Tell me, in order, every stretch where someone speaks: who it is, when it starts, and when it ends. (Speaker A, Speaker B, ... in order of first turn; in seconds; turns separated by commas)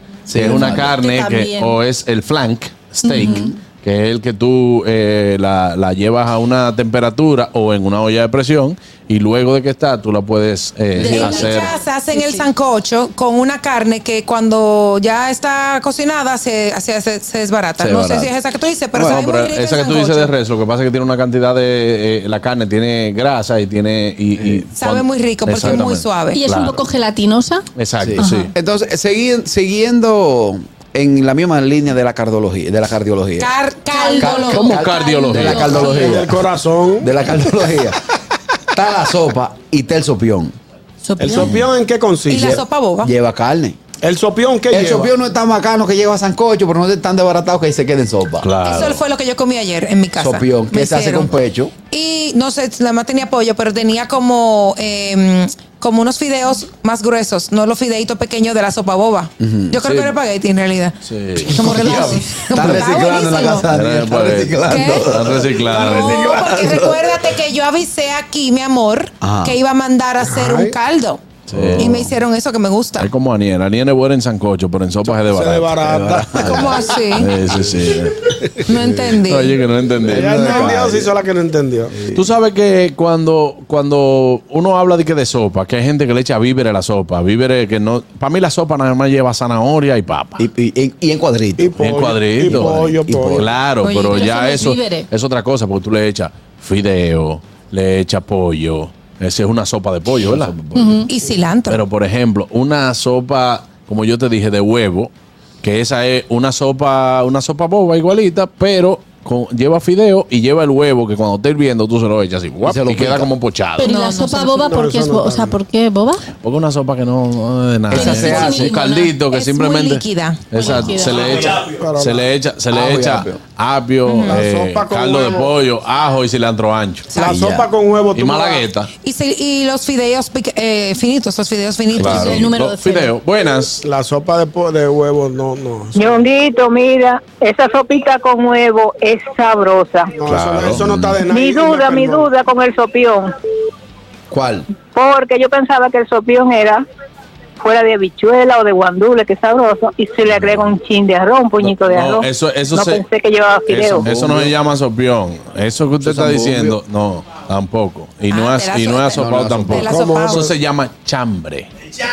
Speaker A: 0.3-1.0, Speaker B: 0.3-11.7, Speaker C: 0.4-1.8, Speaker C: 3.0-3.5, Speaker A: 3.1-3.6, Speaker C: 10.9-12.5, Speaker D: 11.0-20.3, Speaker A: 17.8-18.3, Speaker A: 18.9-19.3, Speaker B: 19.1-26.8, Speaker A: 24.4-24.7, Speaker D: 24.8-26.4, Speaker C: 26.3-27.6, Speaker B: 27.8-28.5, Speaker A: 28.0-33.5, Speaker C: 28.2-28.5, Speaker D: 33.4-36.0, Speaker C: 33.9-36.1, Speaker A: 34.2-36.4, Speaker B: 34.5-36.2, Speaker E: 35.7-37.1, Speaker A: 37.0-38.0, Speaker A: 38.7-40.5, Speaker C: 41.0-41.6, Speaker E: 41.2-42.5, Speaker D: 42.3-43.1, Speaker A: 42.3-43.8, Speaker E: 44.0-45.1, Speaker A: 44.7-48.5, Speaker B: 48.4-49.0, Speaker D: 48.6-51.3, Speaker A: 50.2-51.7, Speaker D: 51.9-63.7, Speaker A: 59.4-59.8, Speaker B: 59.8-60.1, Speaker B: 61.0-61.6, Speaker A: 61.5-67.0, Speaker B: 63.6-66.2, Speaker D: 64.7-65.1, Speaker D: 65.7-71.2, Speaker A: 69.2-69.6, Speaker E: 70.2-70.8, Speaker B: 71.5-72.1, Speaker A: 71.5-72.0, Speaker D: 71.8-73.1, Speaker B: 73.0-76.0, Speaker E: 75.1-76.8, Speaker A: 75.8-78.0, Speaker D: 76.4-77.3, Speaker B: 77.1-78.3, Speaker D: 78.7-79.6, Speaker B: 79.2-81.0, Speaker A: 80.0-81.1, Speaker E: 80.0-82.0, Speaker B: 82.1-90.5, Speaker A: 90.4-93.5, Speaker E: 91.6-93.5, Speaker B: 91.8-100.5, Speaker D: 93.8-94.7, Speaker C: 94.1-95.1, Speaker A: 100.2-101.0, Speaker C: 100.7-101.1, Speaker D: 101.1-101.8, Speaker B: 101.7-113.9, Speaker A: 112.6-113.3, Speaker C: 113.8-116.3, Speaker D: 113.8-114.8, Speaker E: 114.7-115.6, Speaker B: 116.4-127.2, Speaker A: 117.9-118.8, Speaker C: 117.9-119.2, Speaker D: 118.0-118.5, Speaker D: 119.3-120.8, Speaker C: 120.5-121.2, Speaker E: 121.1-122.3, Speaker A: 122.7-123.4, Speaker E: 124.2-125.5, Speaker E: 127.2-128.7, Speaker A: 127.2-127.7, Speaker B: 128.1-128.9, Speaker D: 129.0-132.4, Speaker C: 131.9-133.1, Speaker B: 132.0-133.8, Speaker E: 133.8-136.2, Speaker F: 135.9-140.1, Speaker E: 140.2-142.3, Speaker B: 140.3-140.9, Speaker A: 140.8-141.2, Speaker F: 141.2-143.3, Speaker A: 144.3-144.7, Speaker F: 144.9-146.8, Speaker F: 147.6-154.1, Speaker B: 151.6-153.1, Speaker B: 153.7-161.7, Speaker A: 154.0-154.5, Speaker A: 156.0-156.8, Speaker D: 158.3-160.5, Speaker A: 159.1-159.9, Speaker E: 159.8-160.5